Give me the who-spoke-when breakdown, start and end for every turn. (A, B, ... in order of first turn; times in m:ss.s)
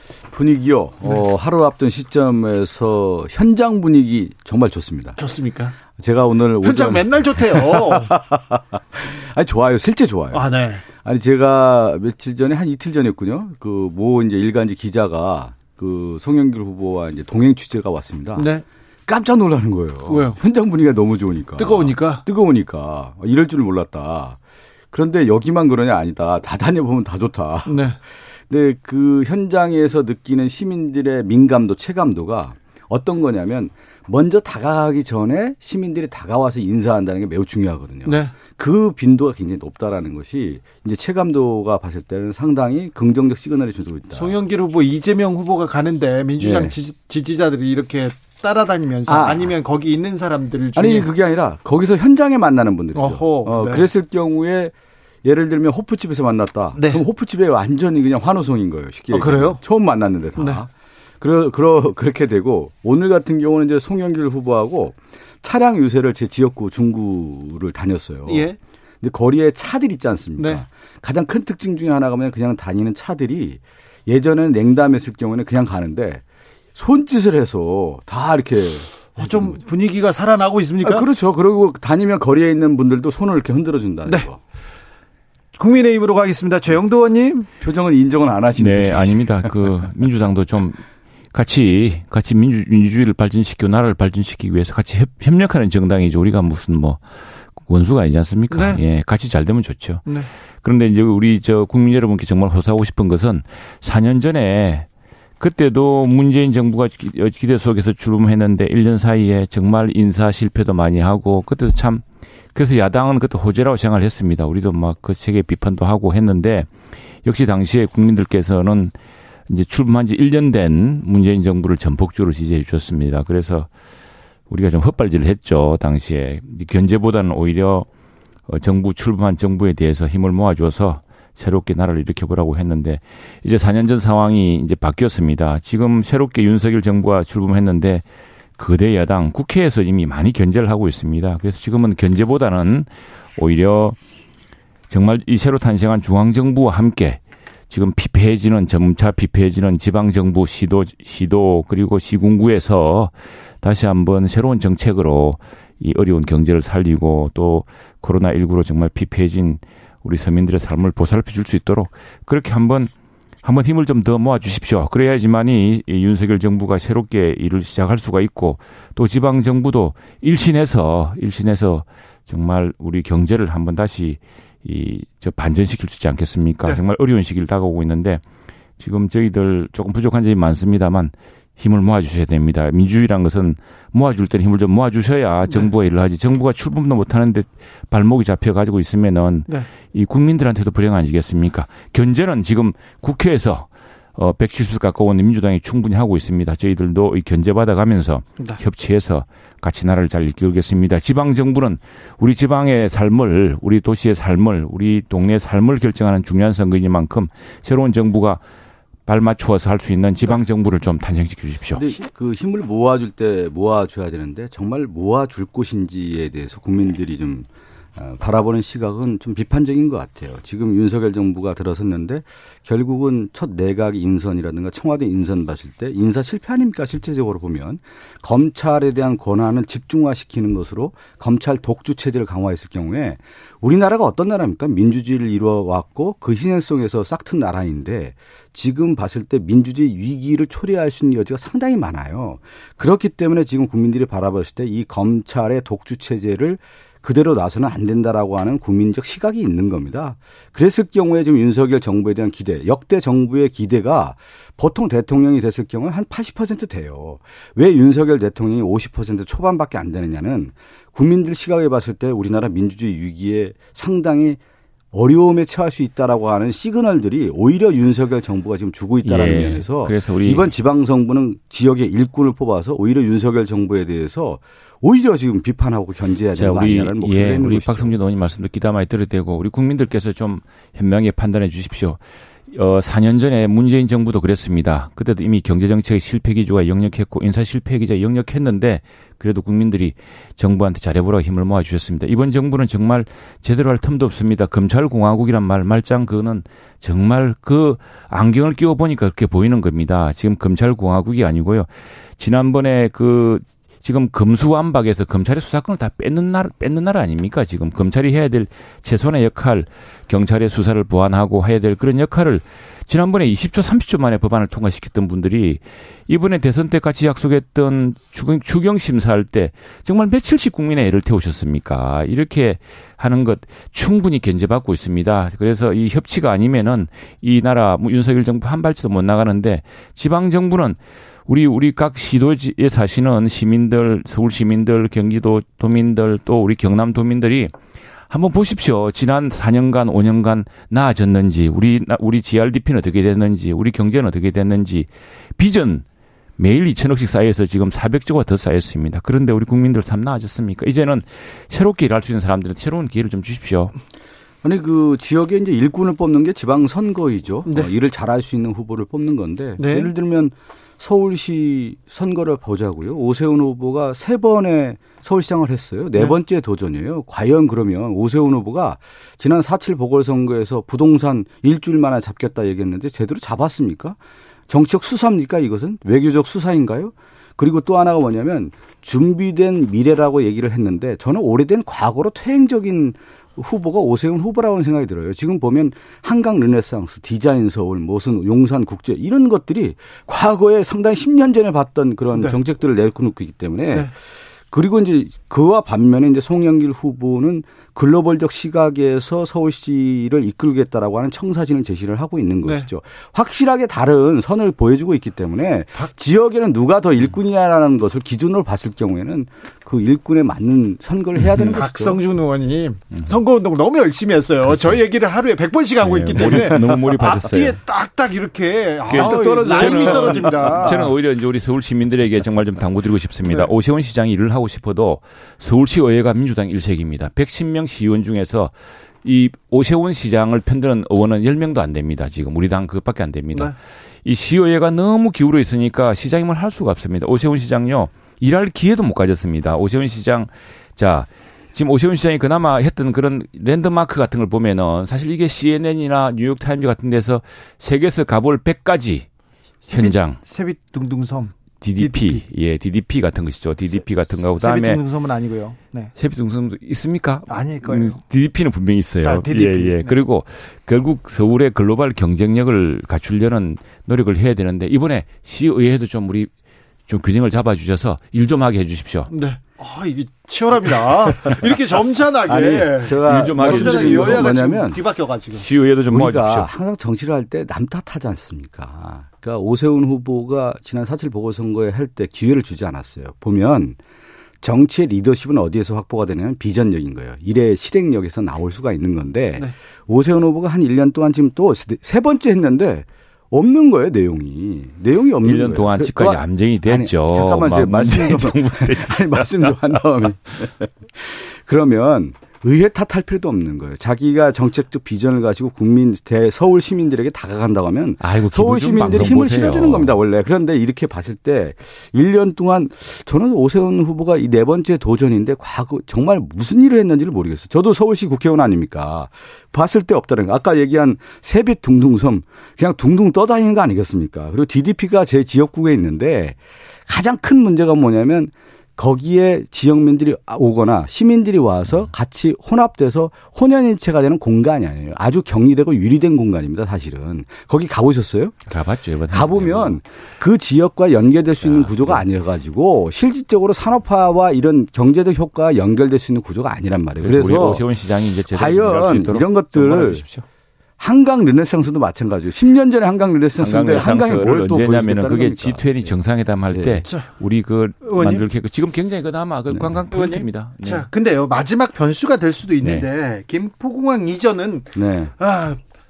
0:00.3-0:05.2 A
0:05.2-0:05.8 B
0:05.9-0:18.5 A
0:06.6-0:08.1 B
0:10.3-0:10.8 B
0:18.4-0:18.6 B
0:19.1-0:24.4 A
0:20.1-0:20.4 B
0:21.6-0:22.2 B
0:24.9-0:27.8 A
0:27.6-0:28.0 B
0:28.5-0:44.3 A
0:38.1-0:38.4 B
0:44.1-0:51.1 B
0:46.4-0:46.7 A
0:49.1-0:49.5 A
0:50.8-0:54.7 A
0:52.9-0:53.9 B
0:55.2-1:00.7 A
0:56.8-0:57.0 B
0:59.1-0:59.6 B
1:00.4-1:00.6 B
1:01.2-1:08.5 A
1:08.3-1:08.6 B
1:09.0-1:16.2 A
1:10.4-1:10.6 B
1:16.7-1:19.6 A
1:19.1-1:21.1 B
1:20.8-1:24.4 A
1:25.6-1:27.5 B
1:27.6-1:29.5 A
1:28.6-1:30.8 C
1:31.3-1:37.0 C
1:37.6-1:40.1 C
1:38.5-1:38.8 B
1:40.6-1:44.9 C
1:45.4-1:56.7 C
1:57.2-1:58.9 C
1:59.5-2:03.7 C
2:04.5-2:07.9 C
2:08.5-2:18.0 C
2:18.6-2:24.0 C
2:24.9-2:42.9 C
2:43.4-2:58.2 C
2:58.8-3:28.4 C
3:29.1-3:31.8 C
3:31.7-4:24.4 A
4:24.9-4:37.9 A
4:29.0-4:30.5 C
4:36.3-4:42.0 C
4:42.5-5:37.5 C
5:38.1-5:45.8 C
5:46.4-5:53.7 C
5:54.4-6:14.0 A
5:59.6-5:59.9 B
6:14.5-6:33.9 A
6:34.5-6:52.0 A
6:51.2-6:51.6 C
6:51.5-7:00.9 B
6:54.4-6:54.8 C
6:55.8-6:57.6 C
6:58.9-7:08.5 C
6:58.9-7:00.9 A
7:09.0-7:29.1 C
7:29.7-7:32.2 B
7:29.7-7:30.2 C
7:31.6-7:34.8 C
7:34.4-7:35.9 B
7:36.0-7:46.3 C
7:37.3-7:38.0 B
7:39.0-7:40.0 B
7:46.9-7:49.1 C
7:49.1-7:55.4 B
7:52.2-7:54.8 A
7:53.0-7:54.4 C
7:55.4-7:56.5 C
7:55.9-8:03.8 A
8:04.4-8:58.4 A
8:15.2-8:19.8 C
8:28.0-8:30.0 C
8:58.5-8:59.8 C
8:59.1-9:07.6 A
9:01.4-9:02.0 C
9:07.0-9:10.2 C
9:08.3-9:10.0 A
9:10.8-9:15.9 A
9:13.4-9:20.9 C
9:16.5-9:16.8 A
9:17.8-9:18.2 B
9:19.5-9:19.8 A
9:19.9-9:25.6 B
9:22.6-9:22.9 C
9:24.8-9:25.1 A